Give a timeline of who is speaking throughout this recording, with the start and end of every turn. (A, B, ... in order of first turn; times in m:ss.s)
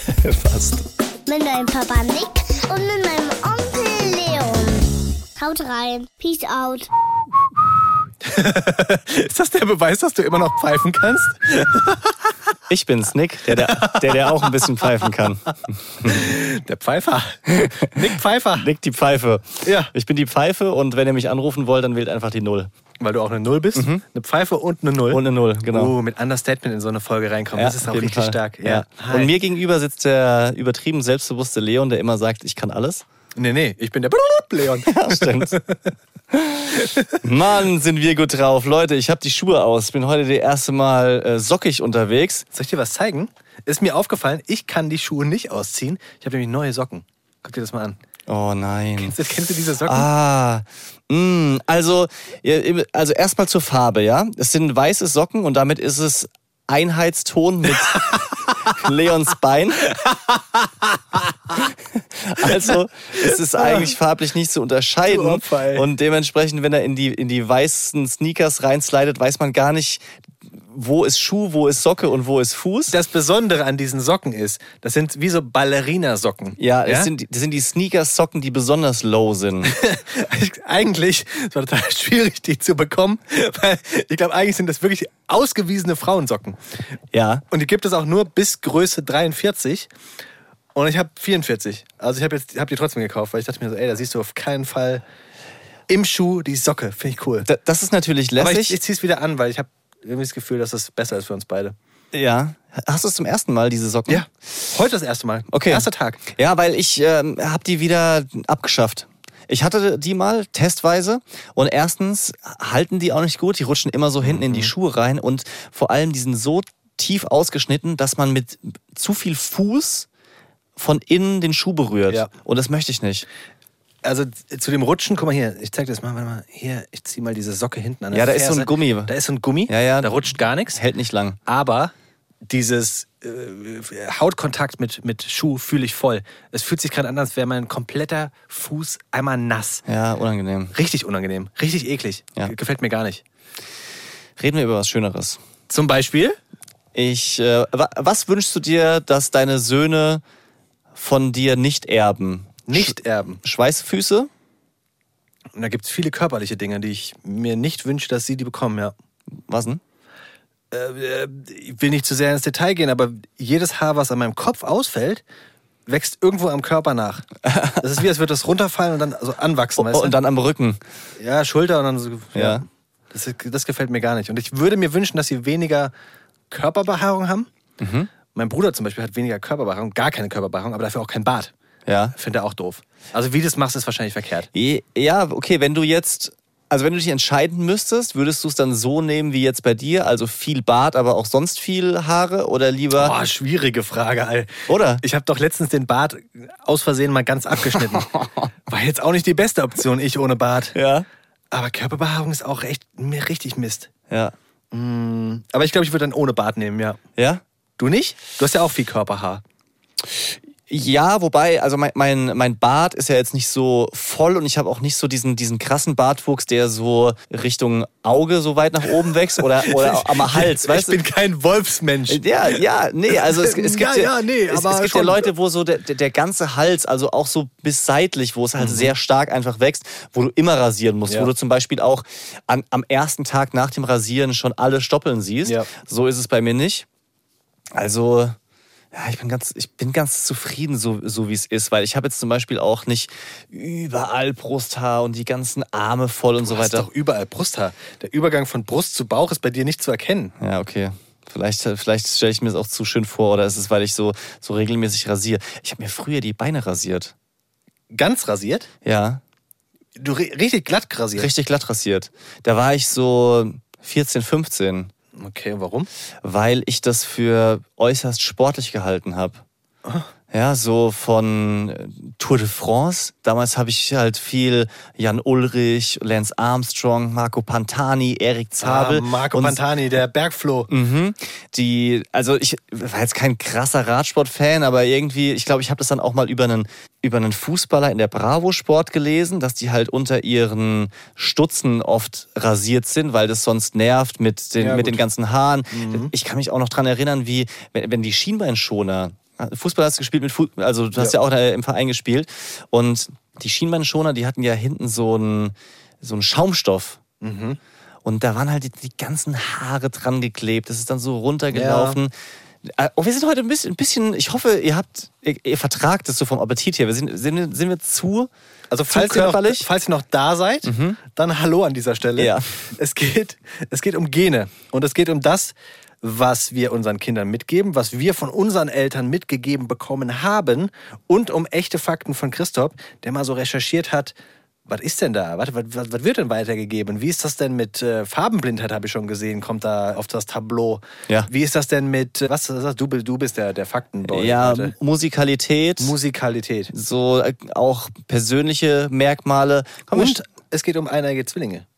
0:00.2-0:00.8 A
0:01.3-0:06.9 B
0:08.2-0:12.1 C
0:12.7-0:16.3 A
0:13.5-0:15.1 C
0:16.0-0:18.7 C
0:17.5-0:17.8 A
0:18.6-0:22.7 A
0:19.6-0:19.9 C
0:23.0-0:29.3 C
0:23.8-0:24.0 A
0:25.1-0:25.9 A
0:27.6-0:33.0 A
0:33.4-0:35.8 C
0:34.8-0:35.6 A
0:36.3-0:42.4 A
0:36.8-0:37.1 C
0:42.5-0:48.0 C
0:48.3-0:49.2 A
0:49.0-0:50.1 C
0:49.8-1:00.0 A
1:00.0-1:00.3 C
1:01.5-1:10.0 A
1:03.2-1:03.9 C
1:05.1-1:05.9 C
1:10.7-1:12.9 A
1:12.9-1:17.1 C
1:16.6-1:19.7 A
1:19.7-1:26.6 C
1:27.1-1:27.4 A
1:27.5-1:29.9 C
1:30.8-1:35.0 C
1:35.9-1:37.5 C
1:37.4-1:38.8 A
1:38.4-1:41.8 C
1:42.1-1:44.3 A
1:44.1-1:46.2 C
1:45.5-2:00.1 A
1:54.2-1:54.7 C
2:00.8-2:03.3 A
2:04.0-2:10.8 C
2:08.1-2:09.1 A
2:09.7-2:11.4 A
2:11.5-2:11.9 C
2:12.4-2:19.8 C
2:19.9-2:20.8 A
2:20.7-2:23.2 C
2:24.4-2:25.4 A
2:25.7-2:26.4 C
2:26.9-2:30.2 A
2:31.0-2:34.3 A
2:32.7-2:33.4 C
2:35.6-2:38.9 C
2:39.5-2:39.8 A
2:40.7-2:45.2 C
2:45.9-2:47.3 C
2:47.4-2:47.9 A
2:47.8-2:50.2 C
2:49.8-2:50.8 A
2:51.2-2:55.9 C
2:52.3-2:52.6 A
2:56.5-2:57.5 C
2:57.8-2:58.1 A
2:58.3-3:01.5 C
3:01.9-3:02.2 A
3:02.2-3:04.5 C
3:04.5-3:13.2 A
3:13.0-3:18.1 C
3:14.7-3:15.0 A
3:17.7-3:18.5 A
3:18.7-3:20.8 C
3:20.8-3:21.1 A
3:21.5-3:23.9 C
3:24.1-3:24.4 A
3:24.7-3:27.0 C
3:27.2-3:27.4 A
3:27.8-3:29.4 C
3:30.1-3:41.0 A
3:39.4-3:42.6 C
3:42.1-3:56.9 A
3:43.1-3:45.3 C
3:48.6-3:48.9 C
3:57.7-3:58.4 A
3:58.9-4:06.9 A
4:06.4-4:10.3 C
4:10.4-4:17.1 A
4:17.9-4:18.7 C
4:18.8-4:19.2 A
4:20.0-4:21.3 C
4:21.2-4:24.9 A
4:25.2-4:25.9 C
4:26.2-4:29.4 A
4:30.3-4:39.6 A
4:38.6-4:40.7 C
4:40.7-5:07.0 A
4:54.6-4:55.0 C
4:55.7-4:56.1 C
5:07.2-5:07.6 C
5:08.0-5:18.3 A
5:11.5-5:12.0 C
5:18.7-5:34.1 C
5:18.9-5:19.7 A
5:20.6-5:21.0 A
5:22.2-5:22.7 A
5:34.7-5:44.8 C
5:44.1-5:46.0 A
5:45.8-5:46.7 C
5:46.7-5:50.2 A
5:49.9-5:51.6 C